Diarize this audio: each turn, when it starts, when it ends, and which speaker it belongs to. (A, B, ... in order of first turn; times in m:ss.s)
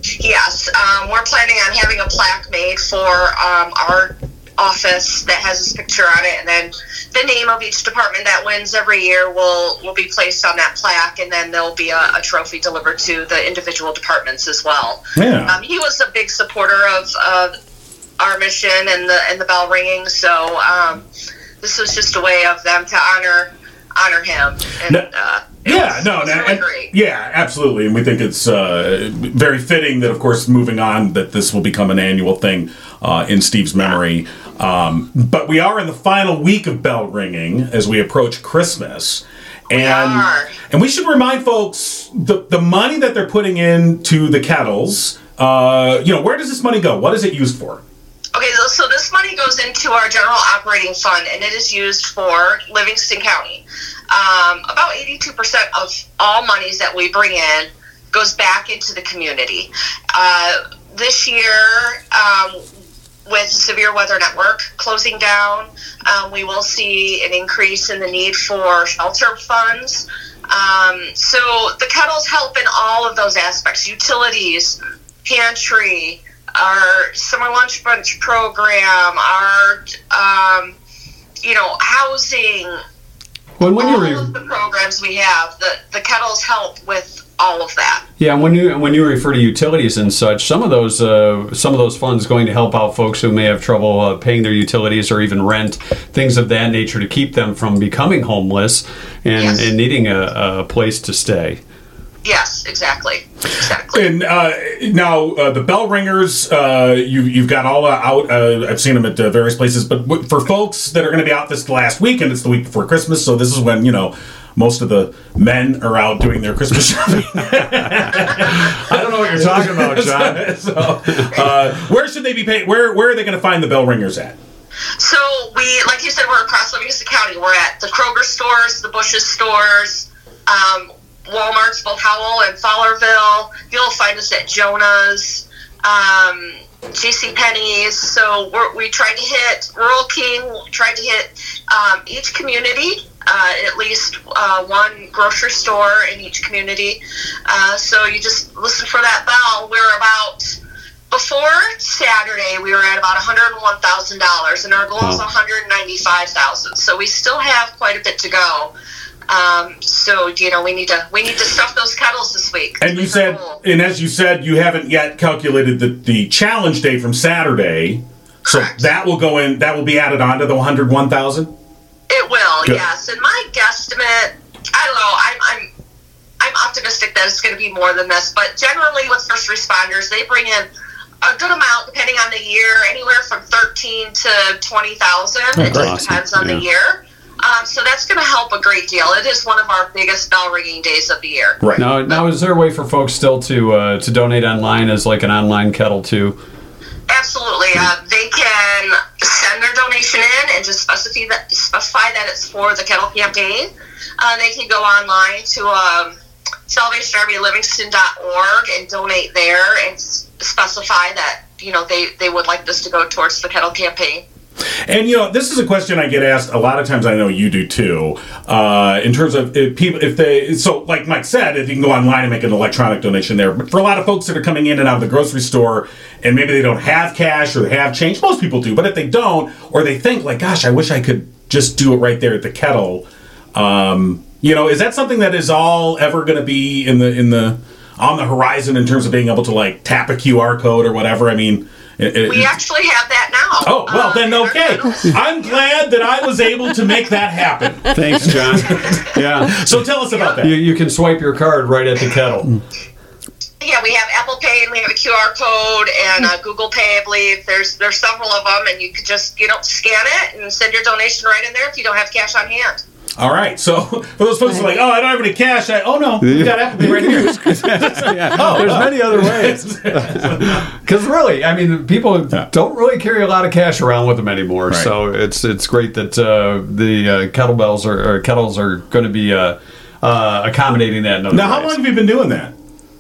0:00.2-0:17.5 A
0:15.2-0:15.5 B
0:18.2-0:21.0 A
0:21.6-0:26.9 A
0:25.6-0:47.8 B
0:39.7-0:40.5 A
0:48.3-1:02.6 A
1:03.2-1:20.7 A
1:21.4-1:22.8 A
1:23.6-1:24.3 C
1:23.8-1:28.0 A
1:28.2-1:41.6 C
1:39.4-1:39.7 A
1:42.2-1:44.0 A
1:43.9-2:04.4 B
1:58.1-2:01.4 C
2:05.0-2:30.5 A
2:31.1-2:38.7 A
2:35.0-2:35.2 C
2:39.3-2:43.6 A
2:42.8-2:51.5 B
2:48.4-2:48.8 A
2:52.1-2:55.7 A
2:56.4-3:00.7 A
3:01.2-3:11.6 A
3:05.6-3:06.0 B
3:05.7-3:06.6 C
3:11.8-3:16.4 C
3:17.1-3:23.7 A
3:24.2-3:26.1 A
3:26.7-3:34.2 A
3:34.8-4:02.6 B
4:02.2-4:05.2 A
4:03.6-4:10.6 B
4:07.9-4:09.6 C
4:10.4-4:12.6 C
4:13.6-4:22.8 A
4:23.2-4:30.7 B
4:26.2-4:41.8 C
4:34.7-4:34.9 B
4:41.3-4:42.5 B